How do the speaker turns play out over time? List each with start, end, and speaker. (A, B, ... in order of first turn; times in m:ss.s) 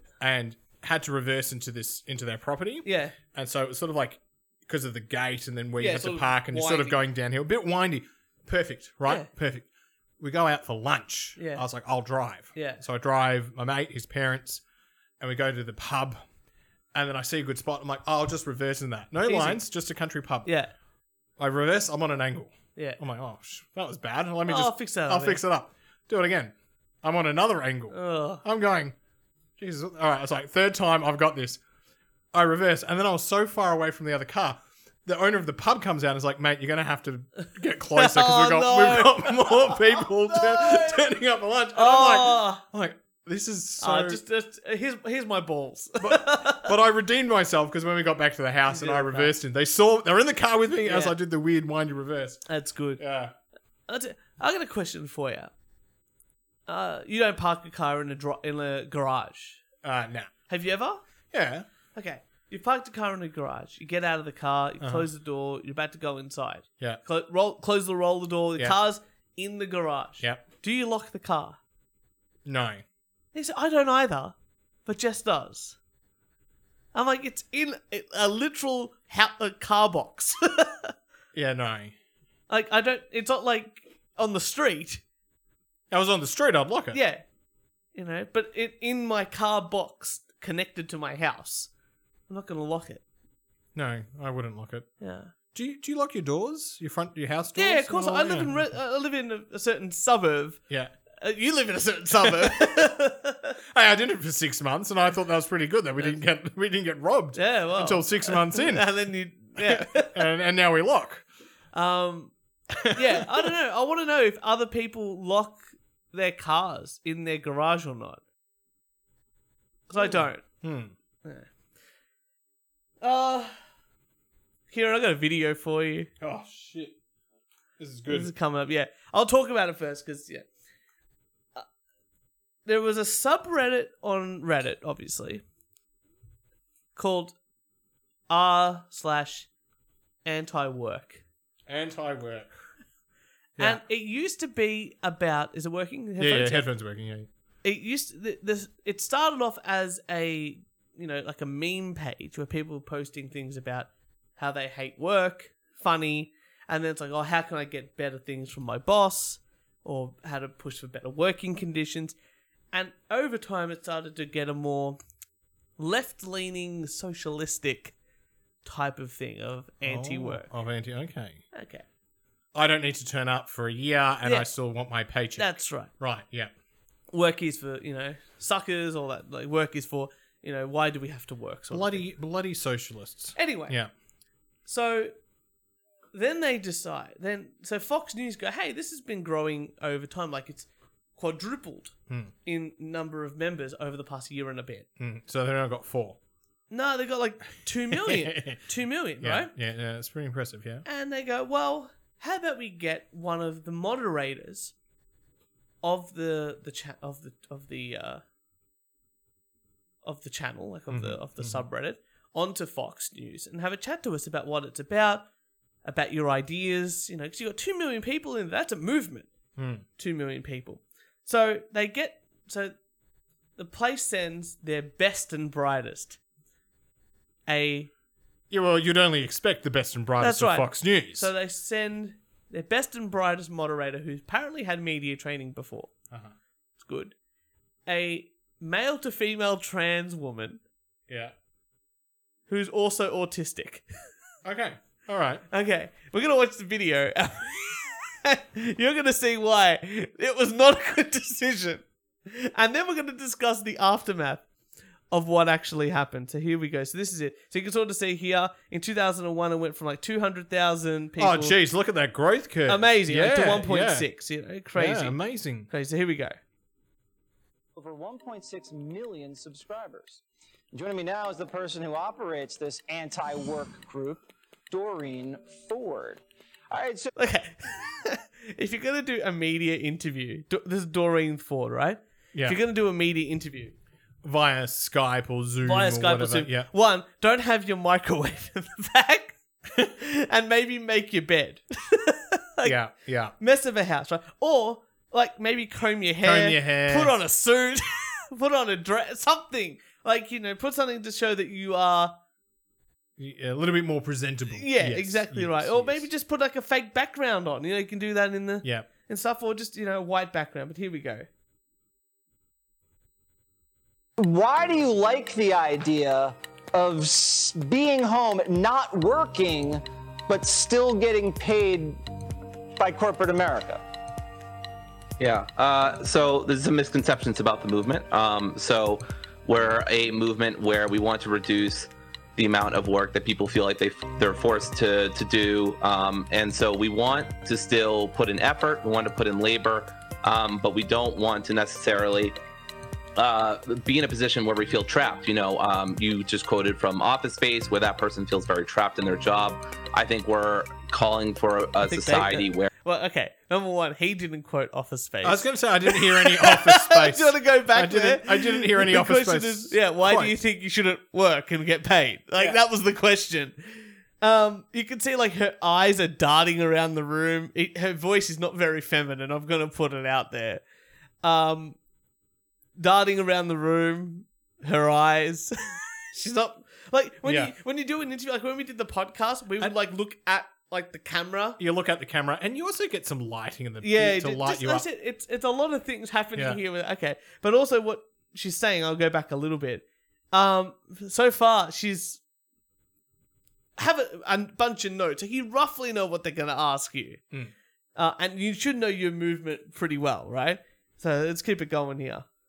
0:00.2-0:09.6 A
0:02.8-0:03.2 B
0:05.8-0:07.0 B
0:10.2-0:14.6 A
0:11.4-0:11.6 B
0:12.5-0:12.8 B
0:15.2-0:16.2 A
0:16.9-0:20.5 A
0:19.2-0:19.6 B
0:20.4-0:20.7 B
0:21.4-0:28.9 A
0:24.4-0:25.4 B
0:27.9-0:28.4 B
0:29.6-0:31.6 A
0:32.3-0:44.2 A
0:37.9-0:41.0 B
0:41.7-0:42.6 B
0:43.8-0:46.7 B
0:46.0-0:52.4 A
0:48.7-0:49.3 B
0:50.8-0:51.1 B
0:52.5-0:53.0 B
0:53.0-0:53.3 A
0:53.9-0:55.5 B
0:56.7-0:59.6 B
0:59.8-1:00.3 A
1:00.5-1:01.0 B
1:01.3-1:01.6 A
1:01.9-1:11.6 B
1:04.8-1:05.1 A
1:12.4-1:12.8 A
1:13.3-1:14.4 B
1:14.9-1:15.8 B
1:16.9-1:20.9 B
1:21.4-1:21.9 A
1:22.5-1:25.0 B
1:25.9-1:27.0 A
1:26.9-1:27.2 B
1:27.9-1:31.7 B
1:32.3-1:33.0 B
1:33.7-1:34.9 A
1:35.0-1:35.3 B
1:35.5-1:38.6 A
1:37.6-1:40.6 B
1:41.2-1:43.6 B
1:42.2-1:42.9 A
1:43.7-1:48.9 A
1:47.4-1:50.2 B
1:49.6-1:51.2 A
1:51.7-1:52.3 B
1:52.8-1:53.4 A
1:52.9-1:58.2 B
1:59.9-2:00.4 B
2:00.0-2:00.9 A
2:01.2-2:01.5 B
2:03.0-2:03.5 B
2:04.7-2:06.1 B
2:06.2-2:06.9 A
2:07.8-2:08.3 A
2:08.1-2:10.4 B
2:12.6-2:15.4 B
2:16.9-2:17.4 B
2:18.3-2:19.5 B
2:20.2-2:21.2 B
2:21.7-2:22.5 A
2:23.6-2:23.8 A
2:23.6-2:26.6 B
2:26.2-2:27.3 A
2:27.6-2:42.2 B
2:42.7-2:45.0 B
2:45.8-2:47.9 B
2:48.6-2:50.5 B
2:49.8-2:51.4 A
2:51.5-2:51.8 B
2:52.5-2:56.5 A
2:54.2-2:54.5 B
2:55.4-2:55.9 B
2:57.1-3:02.0 B
3:01.7-3:03.9 A
3:03.4-3:03.8 B
3:04.6-3:05.1 B
3:06.1-3:11.9 B
3:12.4-3:14.9 B
3:15.0-3:16.2 A
3:16.7-3:19.5 B
3:17.9-3:18.6 A
3:19.2-3:20.8 A
3:20.9-3:24.7 B
3:25.8-3:28.2 B
3:30.0-3:35.2 B
3:30.9-3:31.6 A
3:35.8-3:39.3 B
3:39.6-3:39.8 A
3:40.0-3:42.7 B
3:43.6-3:46.2 B
3:47.5-3:47.9 B
3:48.5-3:51.3 A
3:50.2-3:55.9 B
3:56.8-3:57.1 B
3:57.9-4:00.6 B
4:02.5-4:03.9 B
4:04.4-4:05.4 A
4:05.5-4:14.4 B
4:15.1-4:21.6 B
4:21.2-4:24.1 A
4:22.7-4:25.2 B
4:24.7-4:25.7 A
4:25.7-4:26.4 B
4:27.8-4:37.1 C
4:37.2-4:43.7 B
4:42.3-4:42.6 A
4:44.2-4:46.7 A
4:45.6-4:52.8 B
4:52.6-4:53.3 A
4:53.4-5:02.1 B
4:56.2-4:57.1 A
5:03.2-5:06.0 A
5:04.5-5:11.3 B
5:14.2-5:22.0 C
5:22.8-5:23.8 C
5:25.2-5:42.4 D
5:43.2-5:52.7 D
5:51.9-6:10.6 B
5:55.2-6:00.4 A
6:11.2-6:11.8 B
6:12.8-6:21.6 B
6:17.2-6:17.5 A
6:21.6-6:24.9 A
6:23.8-6:32.2 B
6:33.8-6:37.2 B
6:38.0-6:42.2 B